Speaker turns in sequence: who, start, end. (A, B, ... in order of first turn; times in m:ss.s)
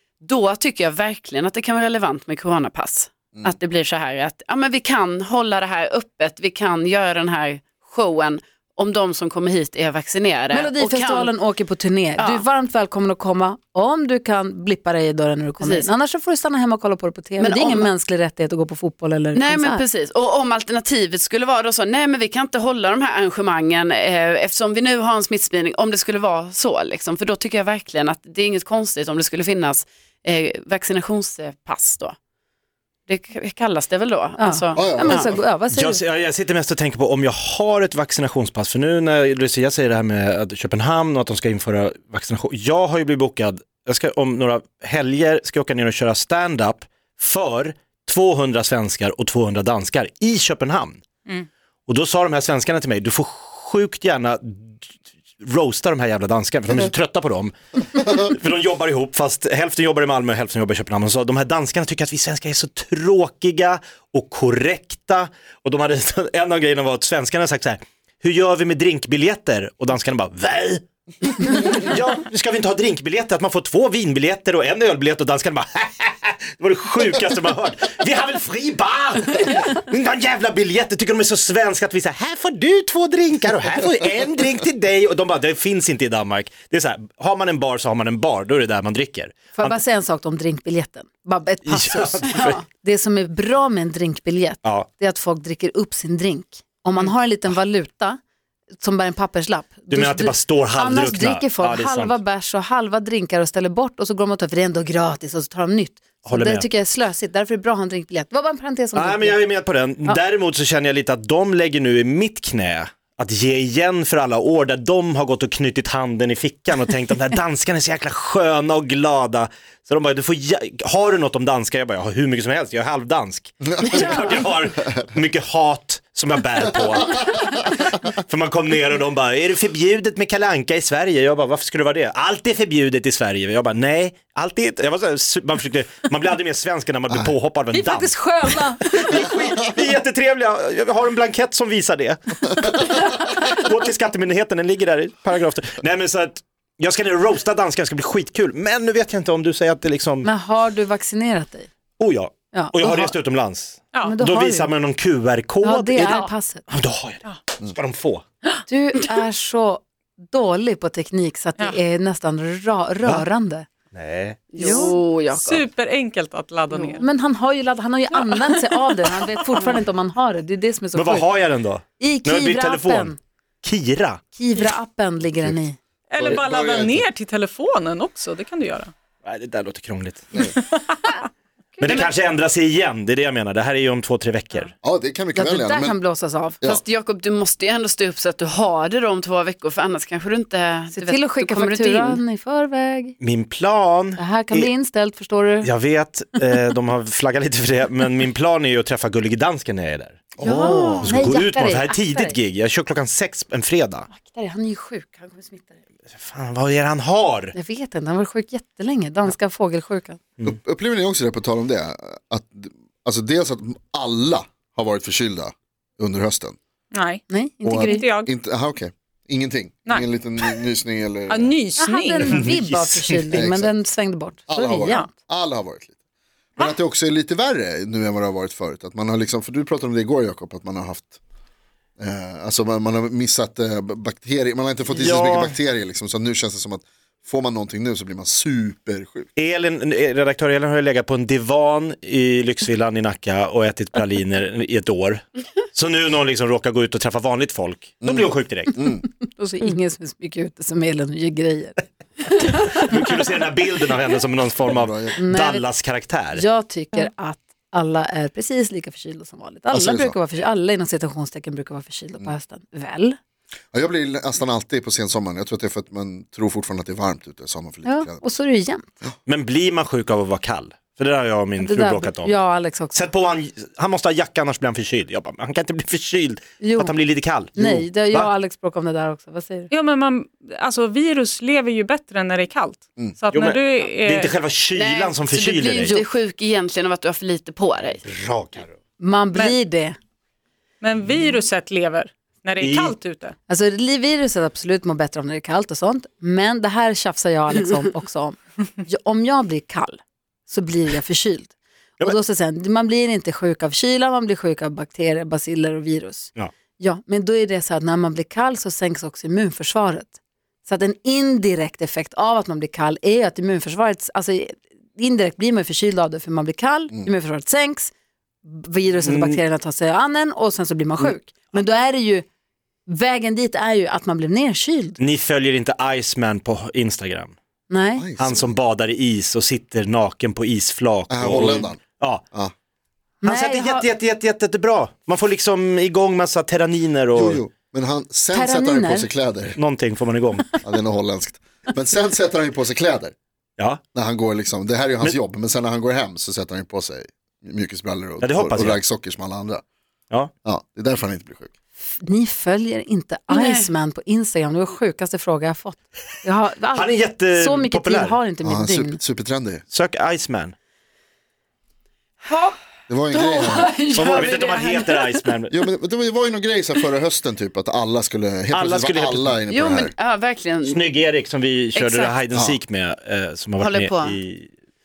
0:00.2-0:11.3 A
0:10.5-0:19.8 B
0:12.2-0:12.4 A
0:15.6-0:15.9 A
0:17.4-0:17.9 A
0:19.3-0:32.2 A
0:33.1-0:35.4 A
0:34.4-0:36.0 B
0:34.8-0:35.4 C
0:35.7-0:51.0 D
0:51.9-0:54.8 D
0:55.4-1:29.8 D
1:29.6-1:38.2 B
1:31.6-1:32.6 D
1:38.8-1:49.4 B
1:39.9-1:42.2 D
1:46.2-1:46.7 D
1:48.9-2:30.3 D
2:03.6-2:04.9 C
2:17.7-2:19.1 B
2:30.2-2:31.7 B
2:32.0-2:38.2 D
2:32.5-2:33.2 B
2:34.0-2:34.7 B
2:35.6-2:36.7 B
2:38.7-2:43.7 B
2:43.9-2:44.5 D
2:44.5-2:45.6 A
2:44.6-2:47.0 E
2:44.6-2:45.0 B
2:47.0-2:51.3 B
2:48.2-2:49.8 E
2:50.9-2:54.2 D
2:52.0-2:53.2 B
2:54.3-2:55.8 B
2:55.2-2:55.6 C
2:56.1-2:58.9 E
2:56.2-2:57.0 C
2:59.2-3:00.5 D
3:00.6-3:01.1 E
3:01.8-3:02.1 B
3:01.8-3:04.7 D
3:04.8-3:06.0 C
3:05.3-3:06.6 B
3:06.6-3:12.2 A
3:10.9-3:13.2 B
3:13.2-3:14.7 D
3:14.2-3:15.7 B
3:15.6-3:24.1 D
3:20.4-3:21.2 C
3:20.4-3:22.4 B
3:20.4-3:20.7 A
3:24.1-3:25.8 B
3:26.1-3:27.5 D
3:27.5-3:30.2 B
3:30.4-3:36.6 C
3:36.9-3:37.2 E
3:37.3-3:38.0 B
3:37.6-3:41.5 C
3:37.8-3:38.3 E
3:39.9-3:40.6 E
3:41.3-3:42.5 E
3:41.8-3:45.1 B
3:42.3-3:43.7 C
3:44.5-3:46.0 C
3:44.8-3:45.1 E
3:46.6-3:51.2 C
3:52.0-3:59.3 C
3:54.9-3:55.6 D
3:59.4-4:08.8 D
4:08.0-4:09.0 C
4:09.0-4:12.9 B
4:12.6-4:16.4 D
4:14.7-4:15.2 C
4:15.2-4:15.7 B
4:16.3-4:23.2 B
4:19.7-4:20.2 C
4:23.7-4:28.2 C
4:27.8-4:28.8 B
4:29.2-4:32.4 D
4:31.6-4:33.1 B
4:32.9-4:38.3 D
4:36.6-4:37.0 B
4:37.5-4:39.7 B
4:37.6-4:37.8 C
4:39.7-4:44.4 E
4:43.3-4:46.0 D
4:44.7-4:48.0 A
4:48.0-4:48.8 D
4:49.0-4:50.0 B
4:50.8-4:53.3 E
4:52.6-4:53.0 D
4:53.5-5:17.9 B
5:18.4-5:22.2 B
5:19.0-5:19.4 D
5:22.9-5:25.0 B
5:25.0-5:27.4 D
5:27.7-5:28.0 B
5:28.0-5:28.6 C
5:28.2-5:32.2 D
5:31.1-5:31.8 C
5:33.2-5:33.9 B
5:33.2-5:37.4 D
5:37.1-5:39.6 C
5:38.3-5:39.1 B
5:39.6-5:40.6 D
5:40.6-5:43.1 C
5:43.9-5:49.6 C
5:48.2-5:48.8 D
5:50.4-5:51.5 C
5:51.8-5:59.0 B
5:53.3-5:53.7 A
5:56.7-5:58.2 D
5:58.4-5:59.6 C
5:59.7-6:00.5 D
6:02.2-6:02.6 A
6:02.9-6:03.8 C
6:03.1-6:05.0 A
6:03.9-6:05.5 D
6:04.0-6:04.9 B
6:05.5-6:09.9 C
6:08.5-6:09.4 D
6:09.5-6:10.8 A
6:10.6-6:14.5 D
6:11.7-6:12.2 A
6:12.3-6:12.6 C
6:13.6-6:14.2 A